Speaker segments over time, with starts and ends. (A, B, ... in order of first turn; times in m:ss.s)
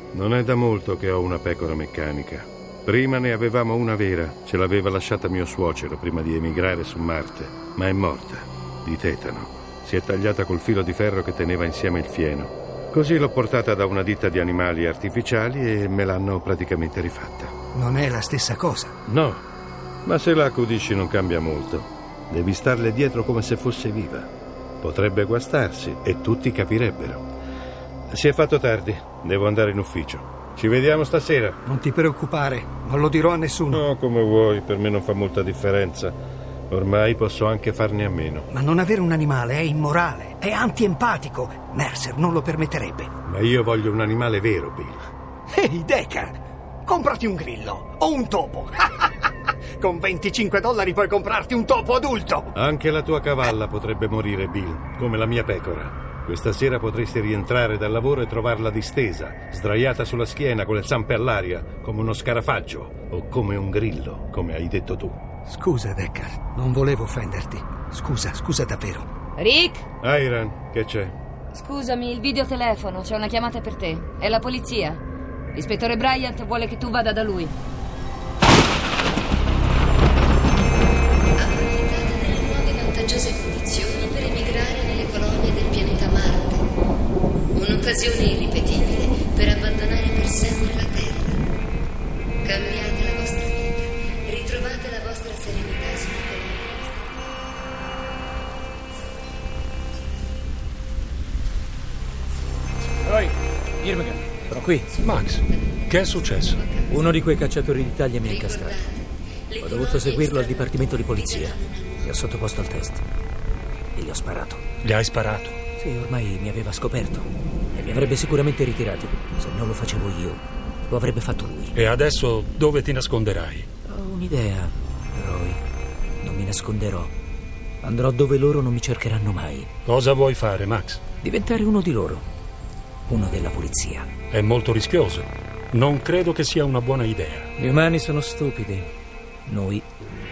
0:00.1-0:17.5 A
0:17.7-0:18.9 B
0:19.1-0:19.4 A
0:20.0-0:24.3 A
0:24.8-0:27.2 A
0:28.1-0:31.6 A
0:31.6-0:33.8 B
0:33.7-0:36.2 A
0:36.7-0:38.5 A
0:38.5-0:43.1 B
0:43.2-0:45.0 A
0:45.5-0:49.1 B
0:49.8-0:52.5 B
0:52.5-1:05.2 A
1:05.5-1:09.0 B
1:09.4-1:09.8 C
1:10.0-1:11.1 A
1:11.5-1:12.7 C
1:12.7-1:13.5 D
1:13.2-1:15.0 C
1:15.6-1:17.5 C
1:21.4-1:26.5 D
1:27.6-1:31.3 D
1:32.5-1:33.7 D
1:34.3-1:36.1 D
1:44.4-1:44.9 E
1:44.9-1:46.7 F
1:46.9-1:48.8 E
1:49.6-1:53.0 E
1:51.2-1:51.7 D
1:54.0-1:54.6 E
1:54.8-1:55.6 F
1:55.8-2:01.7 E
2:01.7-2:03.7 F
2:03.9-2:05.6 E
2:06.2-2:07.1 E
2:07.8-2:09.7 E
2:09.8-2:11.0 F
2:11.2-2:12.2 E
2:13.1-2:14.1 E
2:14.3-2:17.5 F
2:17.6-2:18.9 E
2:19.4-2:19.8 E